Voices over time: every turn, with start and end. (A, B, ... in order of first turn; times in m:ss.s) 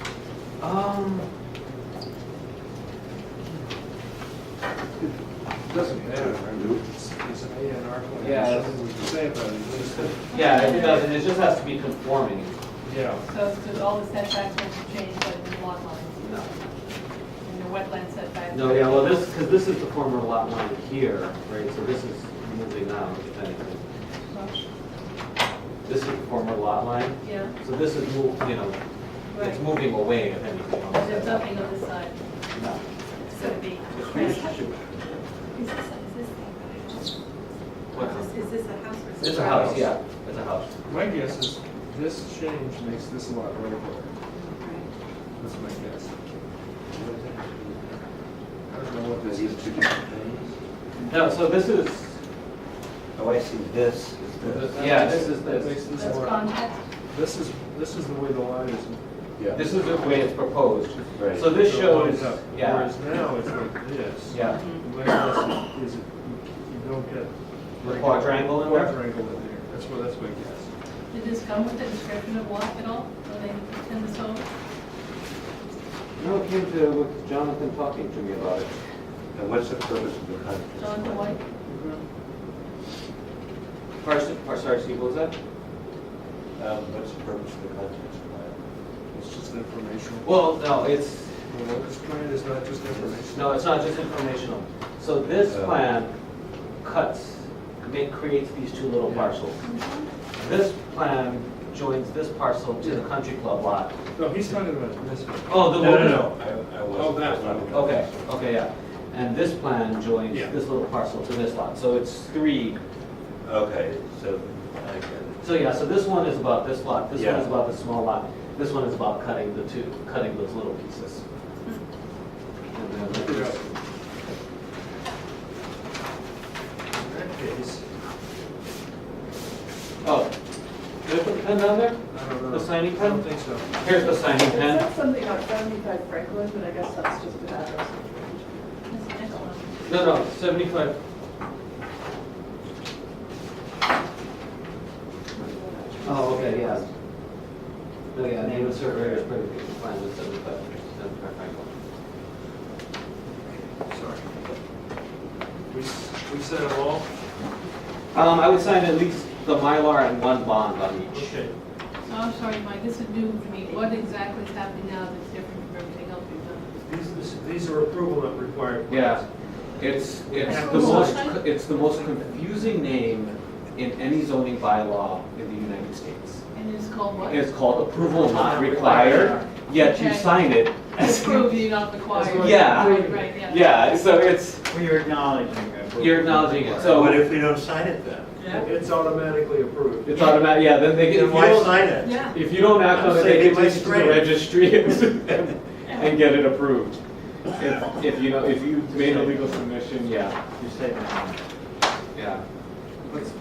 0:00.6-0:01.3 A
0:05.6-0:10.2 B
0:05.7-0:06.0 A
0:06.2-0:06.8 C
0:08.2-0:08.8 A
0:09.7-0:12.6 A
0:10.3-0:11.2 D
0:12.8-0:13.2 B
0:13.2-0:16.3 D
0:16.2-0:16.5 A
0:17.4-0:19.5 D
0:18.5-0:23.8 A
0:24.3-0:24.6 D
0:25.8-0:28.8 A
0:27.2-0:27.5 D
0:29.3-0:29.6 D
0:29.3-0:31.6 A
0:30.9-0:32.2 D
0:32.5-0:32.8 A
0:33.3-0:34.6 D
0:34.0-0:35.2 A
0:35.5-0:37.1 D
0:37.9-0:38.3 A
0:37.9-0:39.9 E
0:39.2-0:40.7 A
0:40.8-0:44.1 B
0:44.4-0:44.9 E
0:45.4-0:46.1 B
0:46.9-0:48.0 C
0:48.7-0:49.8 B
0:49.1-0:50.6 C
0:51.0-0:52.2 A
0:53.2-0:54.6 C
0:54.4-0:56.4 B
0:54.4-0:56.3 A
0:55.9-0:56.8 D
0:57.1-0:59.0 B
0:59.4-0:59.7 C
0:59.5-1:02.9 A
1:01.1-1:01.5 C
1:01.4-1:10.7 B
1:04.3-1:04.6 A
1:04.5-1:04.8 E
1:07.8-1:08.9 A
1:11.1-1:14.4 D
1:16.2-1:18.7 A
1:19.3-1:21.3 C
1:20.8-1:21.4 D
1:21.7-1:22.0 A
1:24.0-1:25.4 A
1:26.6-1:28.6 C
1:29.1-1:30.3 B
1:30.2-1:31.3 A
1:31.5-1:33.6 B
1:32.9-1:33.2 C
1:33.3-1:36.1 A
1:35.5-1:35.8 C
1:36.8-1:39.6 A
1:39.0-1:39.4 B
1:39.6-1:40.0 D
1:40.4-1:43.9 A
1:42.8-1:43.0 B
1:44.1-1:45.8 B
1:45.5-1:46.3 A
1:45.7-1:48.2 C
1:46.9-1:47.9 B
1:47.7-1:52.8 A
1:50.3-1:50.6 B
1:53.4-1:55.5 C
1:55.4-2:01.2 A
1:57.1-1:57.5 C
2:02.7-2:03.7 A
2:03.0-2:03.6 B
2:06.9-2:07.8 B
2:10.0-2:10.3 A
2:11.0-2:13.2 A
2:12.1-2:13.8 B
2:13.8-2:14.9 A
2:14.5-2:18.7 F
2:17.7-2:18.4 G
2:18.9-2:19.9 D
2:19.9-2:21.0 A
2:25.5-2:26.0 G
2:25.5-2:26.1 F
2:26.0-2:26.8 A
2:28.1-2:31.7 A
2:28.5-2:29.0 C
2:33.9-2:34.2 B
2:35.7-2:37.1 B
2:38.1-2:41.3 A
2:41.1-2:41.5 B
2:42.0-2:46.7 D
2:46.8-2:49.2 B
2:48.9-2:49.2 A
2:49.8-2:56.4 A
2:49.8-2:51.2 B
2:50.4-2:51.4 D
2:56.5-2:57.4 D
2:57.2-3:01.6 A
2:58.3-2:59.5 G
2:59.7-3:00.4 D
3:00.9-3:03.8 D
3:02.1-3:03.3 B
3:02.3-3:04.6 A
3:04.7-3:06.8 G
3:06.0-3:07.3 A
3:06.7-3:08.4 C
3:08.4-3:08.6 E
3:08.5-3:10.2 B
3:10.0-3:17.0 A
3:11.0-3:12.2 C
3:12.0-3:12.4 E
3:12.8-3:14.3 C
3:15.9-3:16.1 E
3:17.6-3:20.4 A
3:18.9-3:19.4 C
3:20.6-3:21.3 G
3:22.1-3:22.4 A